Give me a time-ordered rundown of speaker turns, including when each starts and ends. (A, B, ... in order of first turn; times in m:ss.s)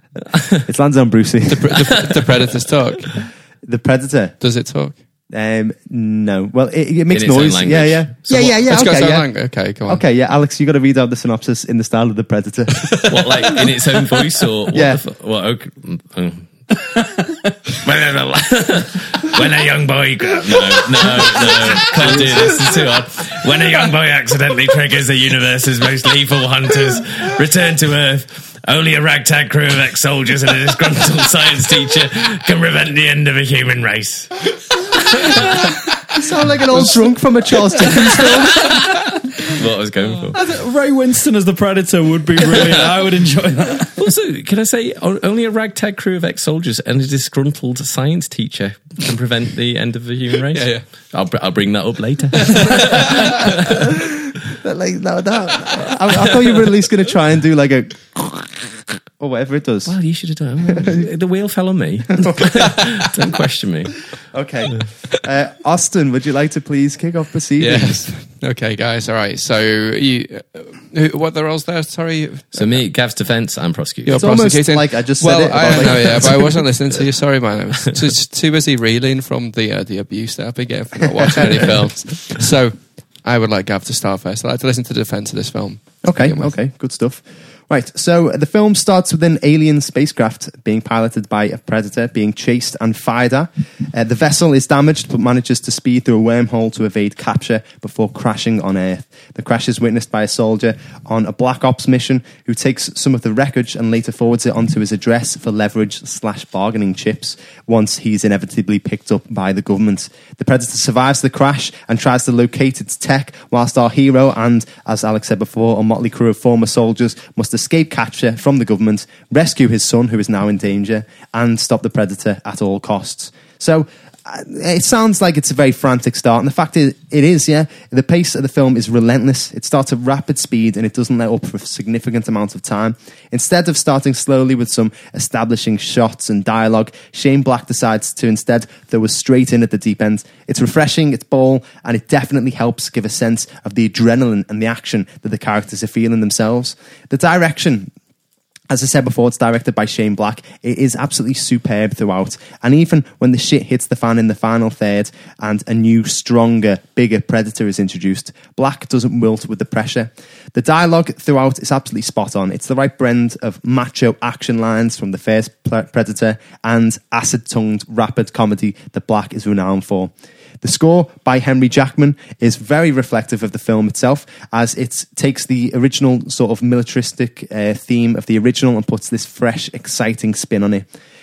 0:00.3-0:00.6 A
0:00.6-0:01.8 B
0:01.5-0:03.3 C
0:03.6-0:04.3 B
0:04.4-0:05.0 C
0:05.3-0:09.3 B
0:07.1-0:08.6 A
0:08.3-0:10.0 C
0:09.8-0:13.1 B
0:13.1-0:17.0 A
0:14.7-0:15.0 B
0:17.7-0:34.5 A
0:35.0-0:35.6 A
0:36.1-0:38.8 B
0:38.2-0:40.4 A
0:40.3-0:44.0 D
0:44.0-0:53.9 A
0:50.5-0:50.8 C
0:54.6-0:59.9 B
0:59.9-1:04.1 A
1:00.6-1:01.1 B
1:02.1-1:02.8 B
1:04.3-1:08.1 B
1:07.6-1:12.8 C
1:12.5-1:14.4 A
1:14.0-1:26.5 C
1:14.1-1:16.6 B
1:15.6-1:16.0 A
1:21.3-1:21.7 B
1:26.0-2:27.9 B
2:28.7-3:00.8 B